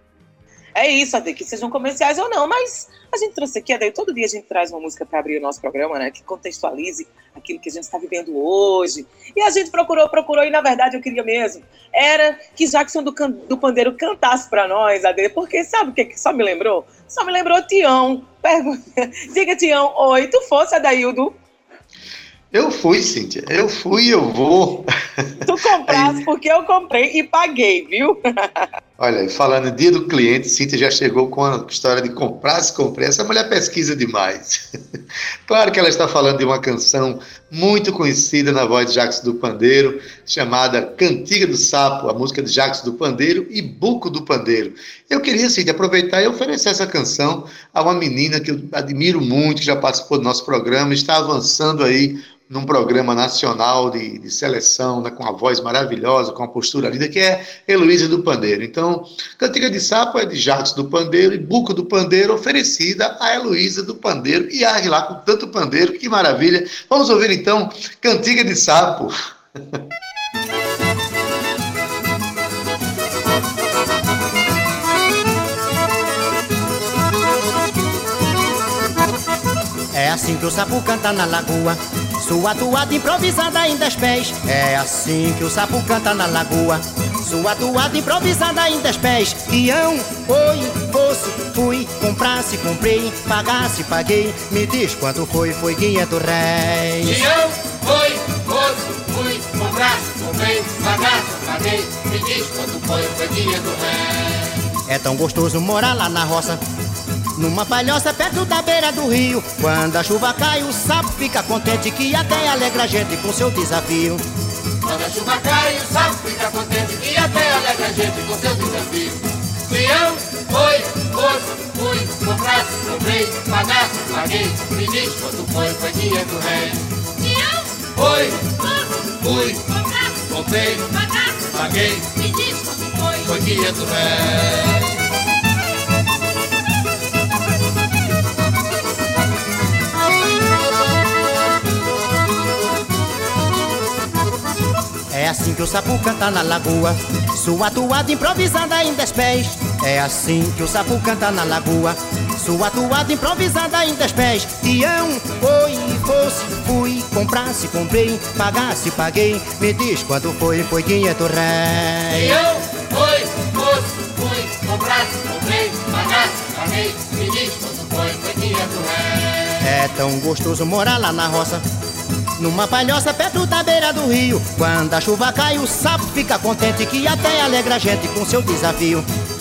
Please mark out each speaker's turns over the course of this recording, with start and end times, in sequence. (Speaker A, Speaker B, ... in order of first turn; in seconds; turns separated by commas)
Speaker A: 0.8-21.4, Speaker B: 22.5-26.2, Speaker A: 25.4-28.7, Speaker B: 29.0-34.7, Speaker B: 35.5-69.8, Speaker C: 79.9-97.2, Speaker D: 97.0-104.5, Speaker C: 104.9-106.6, Speaker C: 107.3-114.2, Speaker D: 114.8-126.9, Speaker E: 127.2-127.7, Speaker D: 127.9-129.7, Speaker D: 130.3-130.9, Speaker E: 131.1-131.4, Speaker D: 131.5-132.2, Speaker E: 132.2-133.3, Speaker D: 133.2-134.8, Speaker C: 145.1-162.4, Speaker D: 162.1-169.6, Speaker C: 169.6-171.6, Speaker C: 172.3-179.1